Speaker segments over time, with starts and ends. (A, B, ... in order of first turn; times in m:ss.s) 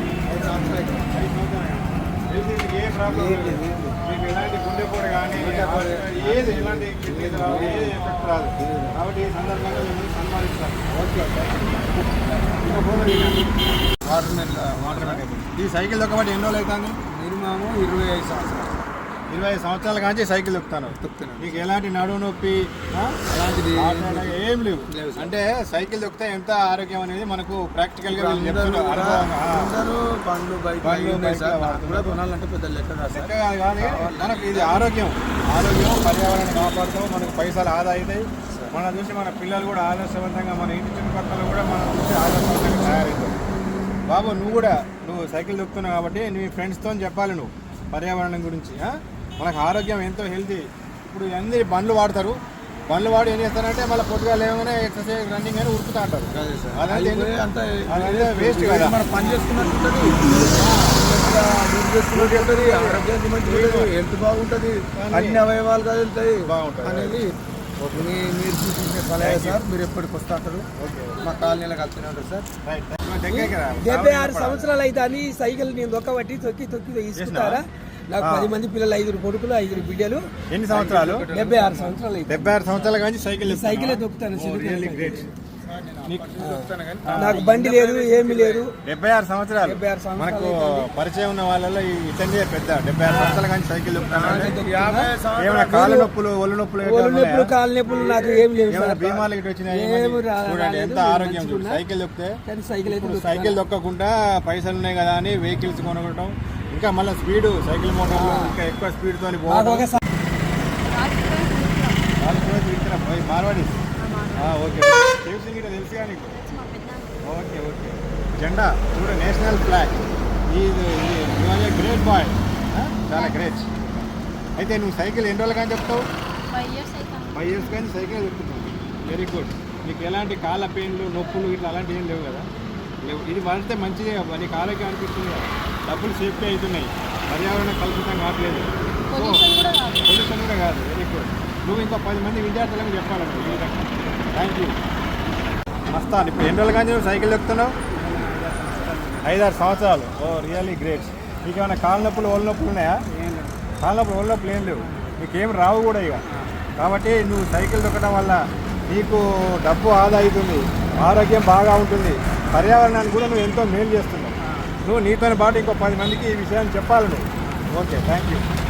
0:00.3-0:01.1 A
0:00.4-0:11.7 B
0:03.1-0:04.0 A
0:05.3-0:08.0 A
0:08.6-0:08.9 A
0:11.0-0:11.5 A
0:12.4-0:13.4 B
0:14.0-0:15.4 A
0:14.8-0:17.0 B
0:17.1-0:18.8 A
0:19.3-0:23.2 B
0:20.9-0:21.7 A
0:23.3-0:25.4 A
0:23.7-0:29.7 B
0:28.1-0:34.9 A
0:30.8-0:32.2 B
0:33.1-0:43.4 B
0:44.1-0:57.4 B
0:56.3-1:07.3 A
0:57.9-0:59.0 B
1:00.3-1:01.1 B
1:02.1-1:03.9 B
1:04.9-1:05.4 B
1:06.4-1:07.2 B
1:07.8-1:08.1 B
1:07.9-1:10.7 A
1:09.2-1:09.6 B
1:10.8-1:11.2 B
1:11.2-1:12.5 A
1:12.6-1:14.7 B
1:13.3-1:20.2 C
1:17.1-1:17.6 B
1:18.2-1:18.5 B
1:20.5-1:21.3 B
1:20.7-1:22.0 A
1:21.3-1:22.6 C
1:22.3-1:25.3 B
1:22.7-1:23.0 A
1:23.4-1:25.3 C
1:24.7-1:25.0 A
1:25.6-1:28.7 A
1:26.0-1:26.4 B
1:26.4-1:28.7 C
1:27.0-1:27.4 B
1:28.8-1:34.6 B
1:29.6-1:30.9 C
1:34.1-1:36.0 A
1:34.1-1:35.1 C
1:35.4-1:37.5 B
1:35.8-1:36.1 C
1:36.8-1:41.8 C
1:38.0-1:38.4 A
1:38.7-1:49.9 B
1:42.4-1:43.6 C
1:48.1-1:48.6 C
1:49.5-1:50.0 C
1:50.8-1:52.0 D
1:52.2-1:53.8 B
1:54.0-1:54.6 D
1:54.4-1:56.4 B
1:56.3-1:57.2 D
1:57.2-2:00.0 B
2:00.5-2:03.7 B
2:03.2-2:03.5 D
2:04.6-2:06.0 B
2:06.5-2:07.8 D
2:07.3-2:12.5 B
2:13.0-2:19.5 B
2:19.1-2:20.1 D
2:20.0-2:24.8 B
2:25.9-2:27.8 B
2:28.2-2:29.1 A
2:29.2-2:33.0 B
2:33.8-2:36.2 B
2:36.8-2:48.4 B